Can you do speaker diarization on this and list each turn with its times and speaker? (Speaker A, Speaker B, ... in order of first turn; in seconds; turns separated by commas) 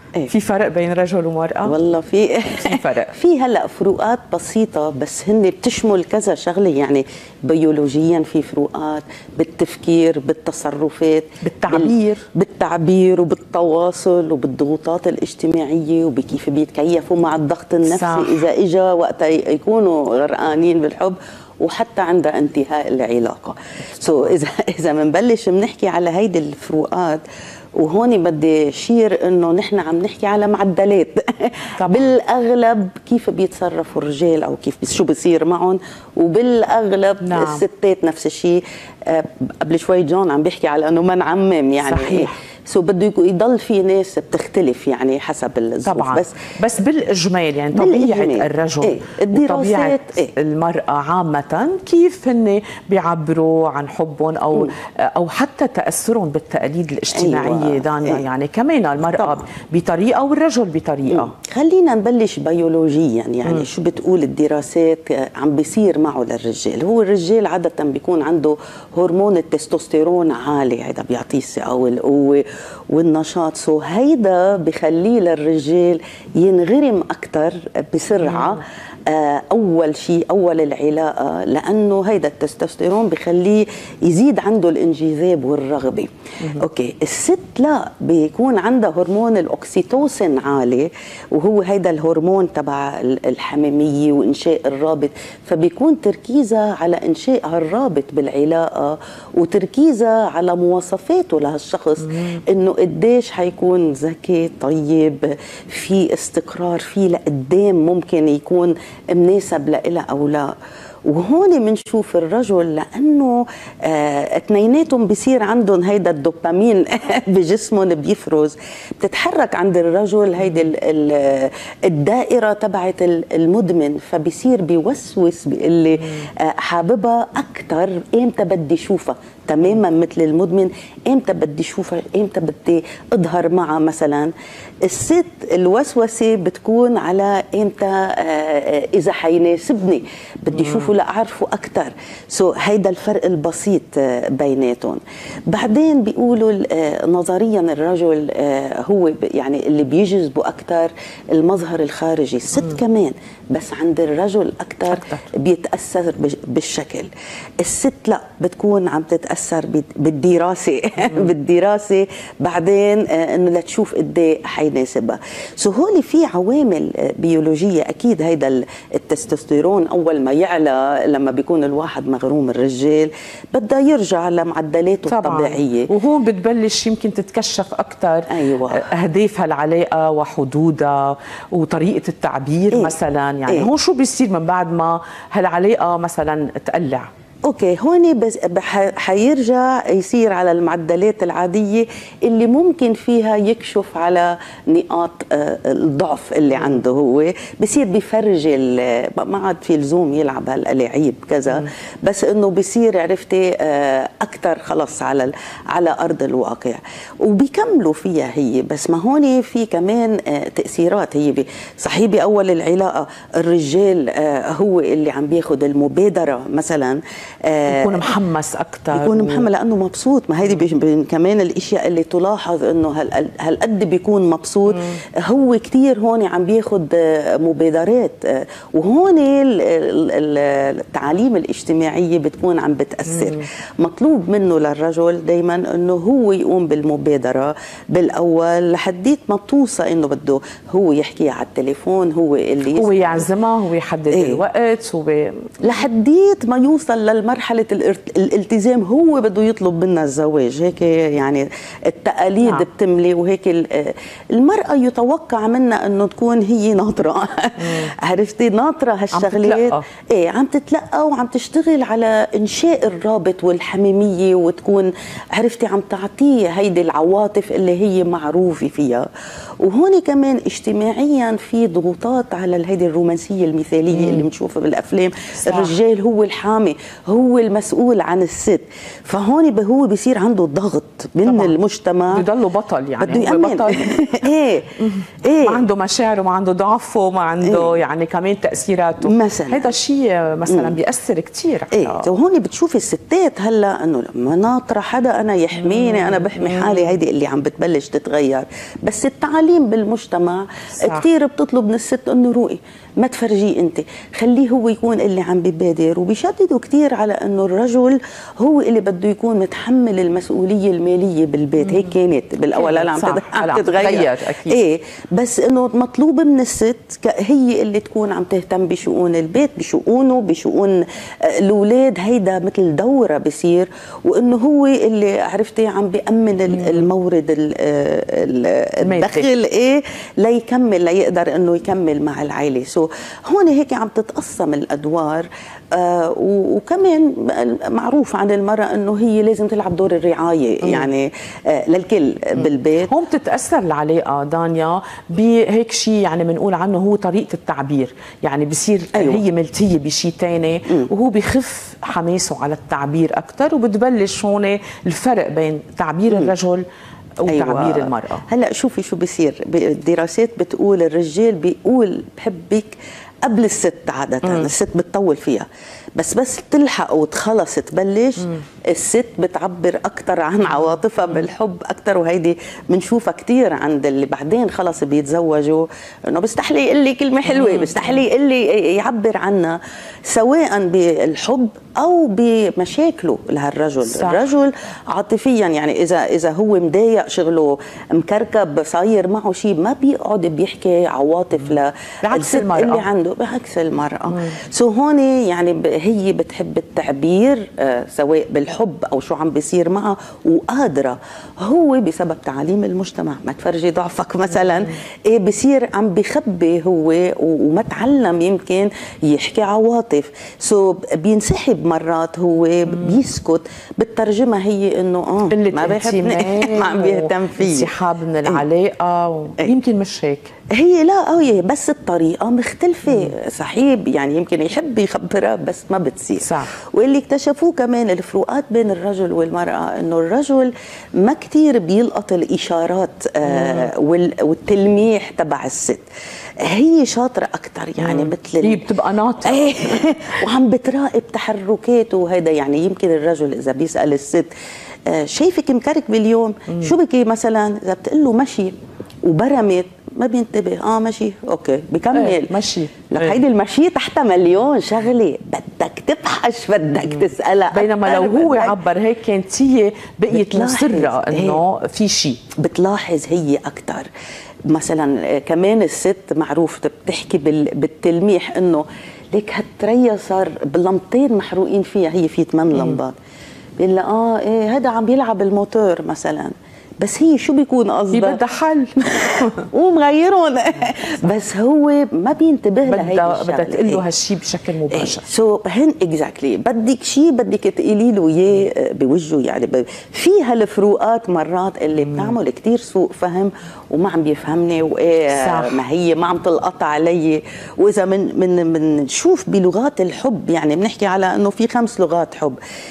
Speaker A: 0.3-1.8, Speaker B: 1.6-27.2, Speaker A: 2.6-3.1, Speaker A: 11.4-12.2, Speaker A: 17.8-18.5, Speaker B: 27.8-46.4, Speaker A: 31.8-32.1, Speaker A: 37.2-37.6, Speaker A: 41.8-42.3, Speaker A: 45.9-61.3, Speaker B: 47.7-50.3, Speaker B: 57.1-58.2, Speaker B: 61.1-110.5, Speaker A: 78.2-78.6, Speaker A: 102.0-102.4, Speaker B: 111.1-134.3, Speaker A: 120.4-120.7, Speaker B: 134.9-157.1, Speaker A: 140.6-140.9, Speaker A: 154.9-155.3, Speaker B: 157.6-175.9, Speaker A: 175.1-187.1, Speaker B: 178.3-178.8, Speaker B: 182.7-183.7, Speaker B: 187.5-218.1, Speaker A: 196.5-196.8, Speaker A: 217.7-219.4, Speaker B: 218.9-243.3, Speaker A: 224.7-225.0, Speaker A: 233.1-233.4, Speaker A: 242.7-245.5, Speaker B: 244.1-244.4, Speaker B: 245.6-269.1, Speaker A: 257.6-257.9, Speaker A: 259.1-259.9, Speaker B: 269.6-282.3, Speaker A: 273.9-274.3, Speaker A: 275.4-275.8, Speaker A: 281.2-281.6, Speaker A: 282.1-284.2, Speaker B: 283.0-285.6, Speaker A: 284.8-292.1, Speaker B: 287.4-287.8, Speaker B: 289.0-289.7, Speaker B: 290.5-290.8, Speaker B: 291.7-342.9, Speaker A: 295.6-297.0, Speaker A: 300.8-301.1, Speaker A: 311.6-311.9, Speaker A: 312.5-314.6, Speaker A: 326.5-326.9, Speaker A: 328.8-329.3, Speaker A: 340.6-340.9, Speaker A: 342.4-356.6, Speaker B: 348.9-349.2, Speaker A: 357.2-358.2, Speaker B: 357.3-417.7, Speaker A: 364.2-364.5, Speaker A: 370.5-371.2, Speaker A: 377.3-378.0, Speaker A: 383.8-384.3, Speaker A: 392.0-392.9, Speaker A: 394.1-394.4, Speaker A: 412.7-413.0, Speaker A: 415.3-420.3, Speaker B: 420.5-435.8, Speaker A: 422.9-423.1, Speaker A: 426.2-426.5, Speaker A: 433.2-433.7, Speaker B: 436.4-438.7, Speaker A: 437.8-440.0, Speaker B: 439.2-444.3, Speaker B: 444.9-448.5, Speaker A: 446.5-446.7, Speaker B: 449.1-452.3, Speaker A: 451.9-453.2, Speaker B: 452.9-458.6, Speaker A: 456.9-462.2, Speaker B: 460.1-461.4, Speaker B: 462.4-463.9, Speaker B: 464.5-472.9, Speaker A: 472.5-472.8, Speaker B: 473.6-478.2, Speaker A: 477.9-479.5, Speaker B: 478.9-483.9, Speaker A: 482.7-485.1, Speaker B: 484.7-502.4, Speaker A: 491.8-492.1, Speaker A: 495.1-495.6